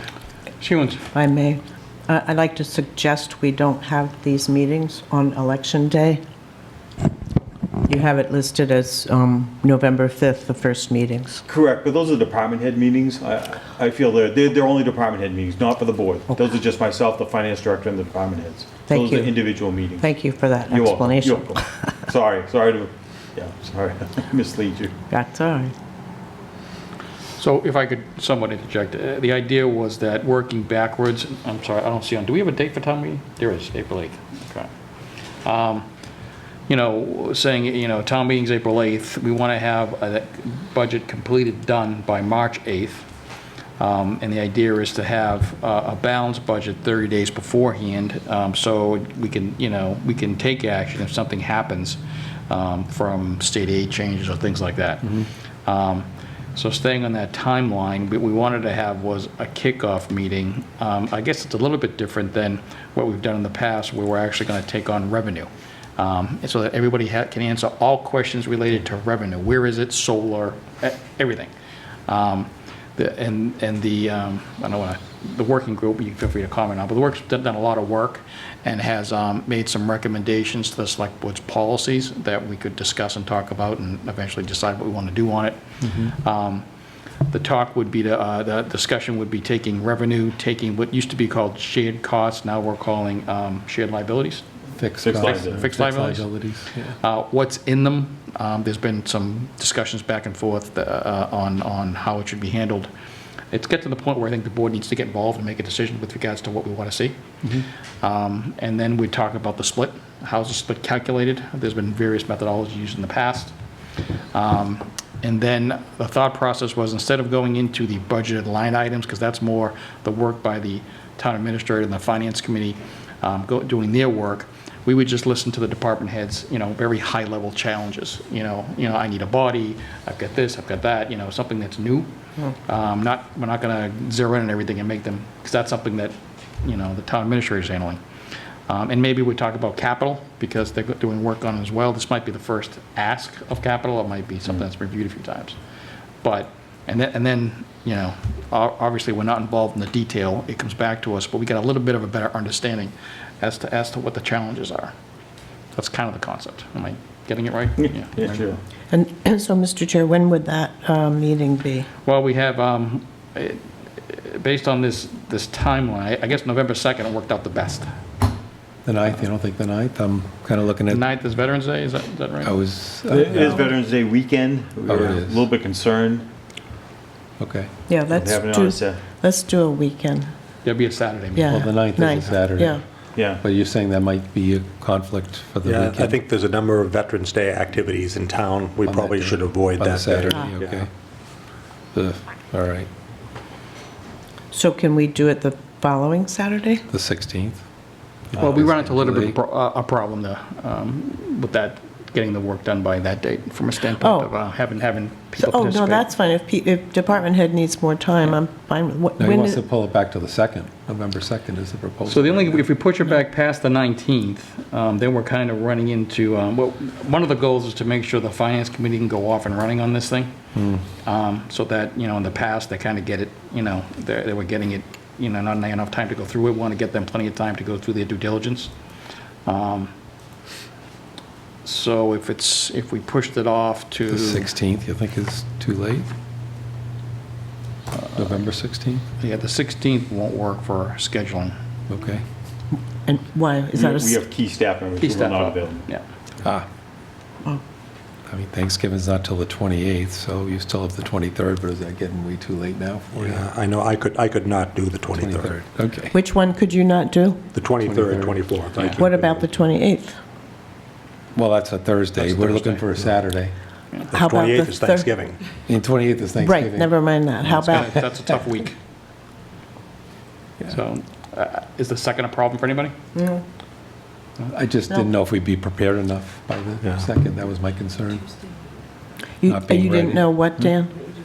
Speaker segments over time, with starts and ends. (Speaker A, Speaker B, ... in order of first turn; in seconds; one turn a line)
Speaker A: 0.6-1.0
Speaker B: 1.1-6.2
Speaker B: 7.8-11.4
Speaker C: 11.5-24.9
Speaker B: 18.9-21.6
Speaker B: 25.1-25.7
Speaker A: 27.4-34.7
Speaker A: 35.4-35.9
Speaker A: 36.7-43.0
Speaker A: 43.8-52.0
Speaker A: 52.5-71.5
Speaker A: 72.1-85.6
Speaker D: 85.8-86.2
Speaker A: 86.2-86.7
Speaker A: 87.3-94.4
Speaker D: 94.8-97.0
Speaker C: 95.0-95.8
Speaker A: 95.0-96.3
Speaker A: 97.0-102.9
Speaker A: 103.5-107.2
Speaker A: 108.0-113.5
Speaker A: 114.3-132.1
Speaker A: 132.7-138.0
Speaker A: 138.7-145.6
Speaker A: 146.2-154.9
Speaker A: 155.7-158.5
Speaker C: 157.8-158.6
Speaker B: 158.9-161.9
Speaker A: 162.1-167.9
Speaker D: 168.8-171.1
Speaker A: 170.9-172.5
Speaker D: 172.4-173.6
Speaker C: 173.1-176.3
Speaker D: 174.9-175.4
Speaker D: 177.4-177.7
Speaker B: 177.9-180.3
Speaker C: 178.1-179.1
Speaker A: 180.6-181.7
Speaker B: 181.3-182.8
Speaker D: 181.4-186.2
Speaker C: 183.2-183.4
Speaker E: 185.6-190.9
Speaker D: 188.8-190.9
Speaker D: 191.9-192.9
Speaker B: 194.5-196.8
Speaker D: 196.9-197.6
Speaker D: 198.3-199.4
Speaker A: 198.4-206.1
Speaker B: 203.8-204.3
Speaker B: 205.4-209.6
Speaker D: 209.2-212.7
Speaker A: 212.1-220.3
Speaker D: 220.6-220.8
Speaker A: 221.1-228.7
Speaker A: 229.5-229.9
Speaker A: 231.6-234.5
Speaker D: 234.1-236.1
Speaker D: 238.1-239.0
Speaker A: 239.2-241.6
Speaker D: 241.9-242.2
Speaker B: 243.1-244.2
Speaker C: 243.7-245.9
Speaker A: 245.0-246.0
Speaker D: 248.3-253.5
Speaker E: 253.2-255.6
Speaker D: 255.2-256.2
Speaker B: 256.1-257.5
Speaker E: 257.5-259.2
Speaker D: 257.8-259.0
Speaker B: 259.0-260.2
Speaker D: 261.4-263.5
Speaker A: 262.2-262.8
Speaker E: 264.1-265.4
Speaker B: 264.1-265.1
Speaker D: 265.6-266.9
Speaker B: 266.4-268.0
Speaker D: 267.5-268.0
Speaker A: 267.6-268.8
Speaker A: 270.7-272.9
Speaker B: 273.1-273.4
Speaker D: 274.5-278.3
Speaker B: 279.4-280.9
Speaker D: 279.5-280.6